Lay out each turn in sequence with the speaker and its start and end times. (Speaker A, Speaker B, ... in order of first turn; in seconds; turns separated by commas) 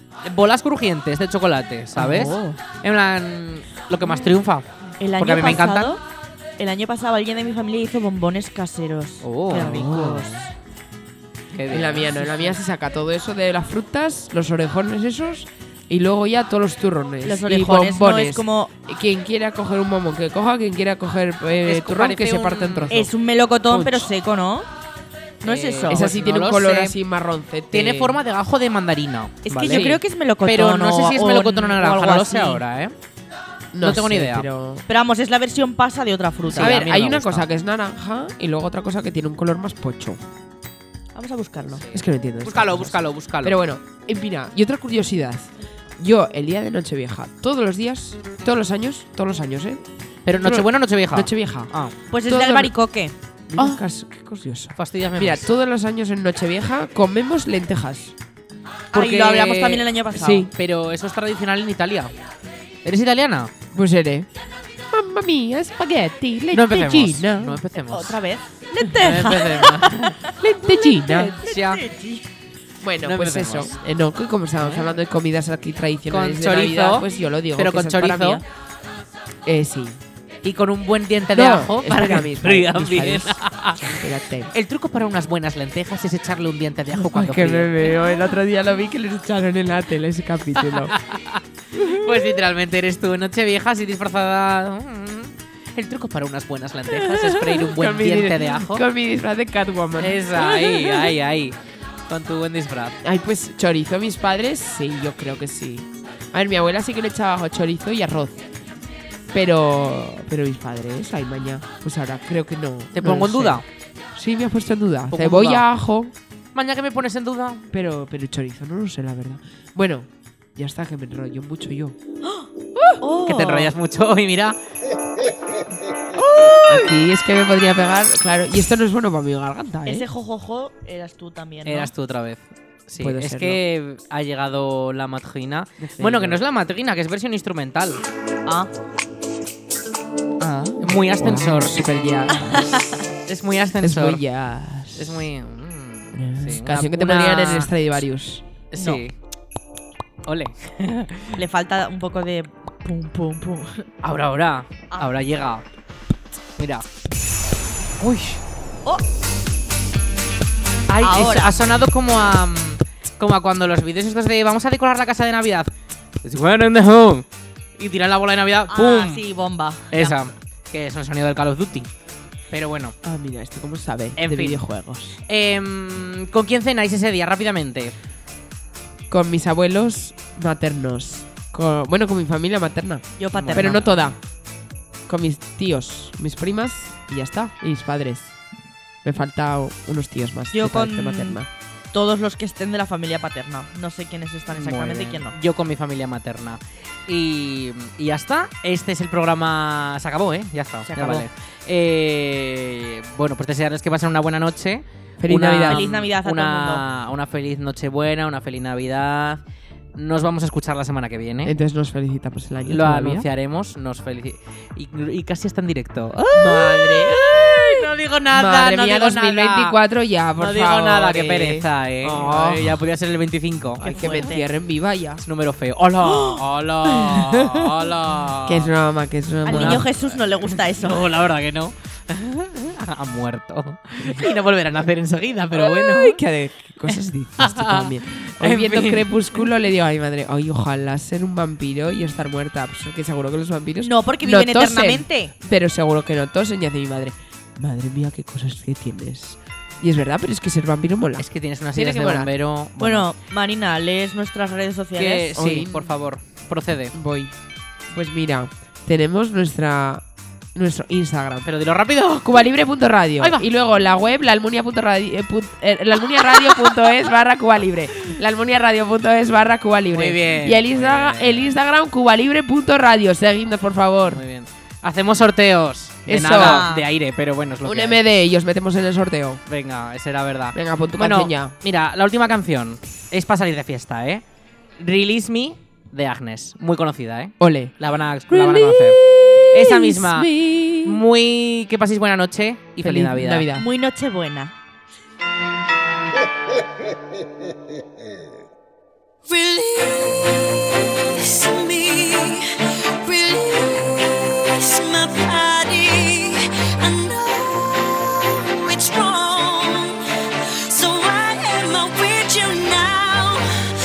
Speaker A: 0.2-6.0, Speaker B: 1.9-2.6, Speaker C: 5.0-6.0, Speaker C: 6.6-10.5, Speaker A: 9.2-9.8, Speaker B: 9.6-10.4, Speaker A: 11.5-12.6, Speaker B: 11.7-23.1, Speaker C: 17.2-18.7, Speaker A: 21.7-23.0, Speaker C: 22.9-24.7, Speaker B: 23.7-24.1, Speaker C: 25.4-26.0, Speaker A: 25.4-27.0, Speaker B: 25.9-28.2, Speaker A: 27.7-29.9, Speaker C: 29.5-32.6, Speaker B: 29.7-30.0, Speaker A: 30.4-32.9, Speaker B: 33.7-34.8, Speaker A: 33.8-34.5, Speaker C: 34.9-37.0, Speaker A: 36.5-37.5, Speaker B: 36.5-40.2, Speaker C: 41.1-41.9, Speaker B: 41.9-49.8, Speaker A: 42.4-43.6, Speaker A: 50.3-52.0, Speaker B: 50.4-51.7, Speaker C: 52.1-53.1, Speaker B: 52.3-52.7, Speaker B: 53.5-58.1, Speaker A: 53.6-53.8, Speaker A: 54.8-55.5, Speaker C: 58.9-60.5, Speaker A: 58.9-62.1, Speaker B: 60.1-60.5, Speaker A: 62.9-63.5, Speaker B: 63.7-64.3, Speaker B: 64.9-67.6, Speaker A: 66.5-68.2, Speaker C: 67.9-70.3, Speaker A: 68.9-70.2, Speaker B: 70.4-71.4, Speaker A: 71.1-71.8, Speaker C: 71.4-72.3, Speaker B: 72.8-78.5, Speaker A: 73.0-73.7, Speaker A: 74.6-75.0, Speaker A: 76.1-78.4, Speaker B: 79.5-80.0, Speaker A: 80.4-87.9, Speaker B: 81.3-84.5, Speaker B: 86.9-91.0, Speaker A: 90.8-98.8, Speaker B: 91.8-92.3, Speaker B: 97.0-101.1, Speaker A: 100.0-101.6, Speaker A: 102.1-103.0, Speaker B: 103.0-108.5, Speaker B: 109.3-113.6, Speaker A: 112.9-113.7, Speaker B: 114.2-116.1, Speaker A: 115.1-115.7, Speaker A: 116.5-117.7, Speaker B: 117.7-122.0, Speaker C: 122.2-122.5, Speaker B: 122.8-123.0, Speaker C: 123.0-123.7, Speaker A: 123.2-124.6, Speaker A: 126.2-126.9, Speaker B: 126.7-130.1, Speaker C: 129.9-131.9, Speaker A: 131.7-138.0, Speaker B: 133.0-133.6, Speaker B: 135.8-136.4, Speaker B: 140.4-142.8, Speaker A: 140.8-141.9, Speaker C: 142.5-142.8, Speaker A: 143.3-144.2, Speaker B: 143.8-145.3, Speaker A: 144.9-147.7, Speaker B: 146.1-148.4, Speaker A: 148.7-149.1, Speaker C: 148.8-149.0, Speaker A: 150.3-151.4, Speaker C: 151.3-153.9, Speaker A: 154.0-155.6, Speaker C: 154.9-155.2, Speaker A: 156.6-156.8, Speaker A: 158.0-158.4, Speaker A: 160.9-165.7, Speaker C: 161.0-161.6, Speaker A: 166.2-167.3, Speaker A: 167.8-169.2, Speaker C: 168.7-170.2, Speaker A: 169.9-171.9, Speaker A: 172.5-172.9, Speaker B: 173.0-175.2, Speaker A: 174.2-174.6, Speaker A: 175.3-177.9, Speaker B: 179.1-184.2, Speaker C: 183.2-183.8, Speaker A: 183.3-183.9, Speaker B: 185.1-188.3, Speaker B: 189.0-191.5, Speaker C: 190.5-191.4, Speaker C: 191.9-195.3, Speaker A: 194.6-209.4, Speaker C: 200.9-201.3, Speaker B: 205.2-205.8, Speaker C: 205.7-206.8, Speaker A: 209.9-211.6, Speaker B: 211.4-213.3, Speaker A: 212.7-219.8, Speaker B: 216.3-222.8, Speaker A: 220.4-224.0, Speaker C: 223.8-224.5, Speaker B: 223.8-225.2, Speaker A: 225.2-228.7, Speaker B: 226.9-227.7, Speaker B: 228.4-229.8, Speaker C: 229.4-231.1, Speaker A: 229.5-236.2, Speaker B: 235.6-252.3, Speaker A: 236.9-239.4, Speaker C: 243.8-245.3, Speaker A: 251.2-253.1, Speaker C: 252.8-255.3, Speaker A: 255.0-256.9, Speaker B: 255.3-255.9, Speaker B: 256.9-257.3, Speaker B: 257.9-260.0, Speaker B: 260.6-261.5, Speaker A: 261.4-262.5, Speaker B: 262.2-274.2, Speaker A: 263.2-263.5, Speaker A: 269.9-271.5, Speaker A: 274.1-278.0, Speaker B: 276.1-276.7, Speaker C: 276.2-276.9, Speaker B: 277.6-279.4, Speaker A: 279.5-284.2, Speaker B: 280.5-281.6, Speaker A: 284.8-289.0, Speaker B: 287.4-287.7, Speaker B: 288.3-291.0, Speaker A: 289.5-290.3, Speaker A: 290.8-293.5, Speaker B: 292.8-293.7, Speaker C: 293.6-294.5, Speaker D: 299.2-313.4